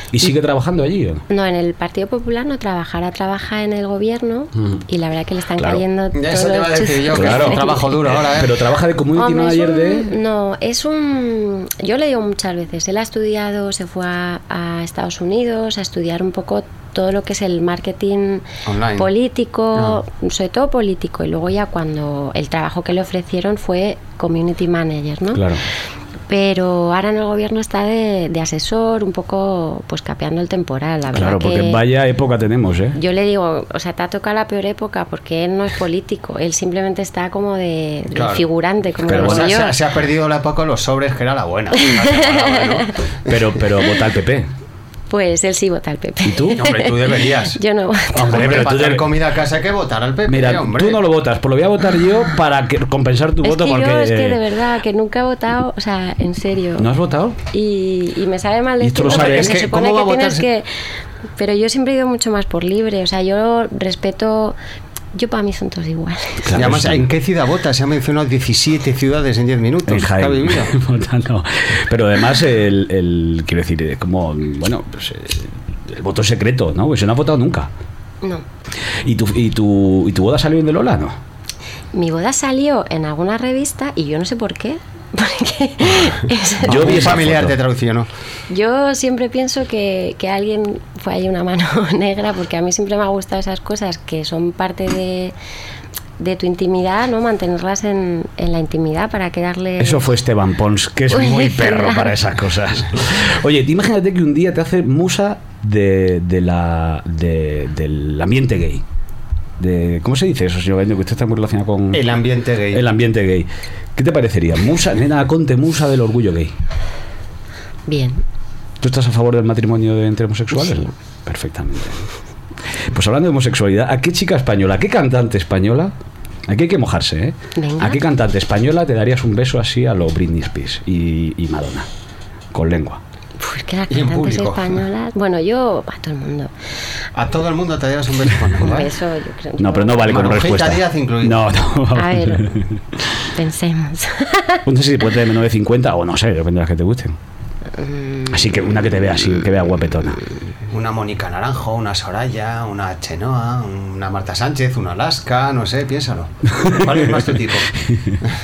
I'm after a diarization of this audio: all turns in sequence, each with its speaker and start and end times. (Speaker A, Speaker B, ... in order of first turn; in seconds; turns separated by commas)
Speaker A: 0.1-1.2, Speaker B: 1.3-7.9, Speaker A: 5.5-5.8, Speaker C: 6.1-8.5, Speaker A: 7.1-10.1, Speaker B: 9.2-18.4, Speaker C: 18.6-19.1, Speaker B: 19.0-25.4, Speaker A: 25.3-25.6, Speaker B: 26.3-31.8, Speaker A: 31.1-33.0, Speaker B: 32.9-39.7, Speaker C: 38.1-38.4, Speaker C: 39.0-43.0, Speaker A: 39.1-39.5, Speaker B: 42.2-42.6, Speaker A: 43.2-44.5, Speaker B: 45.1-48.6, Speaker A: 46.2-46.8, Speaker C: 46.6-47.6, Speaker A: 48.1-49.2, Speaker C: 48.2-51.0, Speaker A: 50.3-54.4, Speaker B: 53.4-56.9, Speaker A: 56.8-57.4, Speaker B: 57.5-60.7, Speaker A: 58.8-59.6, Speaker C: 59.1-60.5, Speaker B: 61.4-64.5, Speaker B: 65.1-66.7, Speaker A: 66.4-67.1, Speaker C: 66.5-70.7, Speaker A: 69.8-77.7, Speaker A: 79.0-81.2, Speaker B: 81.9-87.1, Speaker A: 86.6-87.6, Speaker C: 86.6-88.1, Speaker B: 88.5-95.3, Speaker B: 96.2-100.1, Speaker A: 99.8-108.8, Speaker B: 101.1-102.1, Speaker A: 109.6-116.5, Speaker C: 111.9-112.8, Speaker B: 117.9-118.2, Speaker A: 118.8-122.0, Speaker B: 120.5-120.9, Speaker A: 122.8-125.9, Speaker A: 126.5-131.9, Speaker B: 127.5-128.0, Speaker A: 132.5-133.0, Speaker B: 133.4-136.5, Speaker C: 133.9-134.8, Speaker C: 137.1-138.9, Speaker B: 138.6-140.1, Speaker A: 139.6-142.8, Speaker C: 140.0-141.4, Speaker B: 141.9-142.6, Speaker B: 143.2-144.6, Speaker A: 144.6-147.2, Speaker B: 147.8-148.4, Speaker A: 148.3-150.2, Speaker C: 150.7-157.7, Speaker A: 156.8-157.2, Speaker A: 157.8-158.2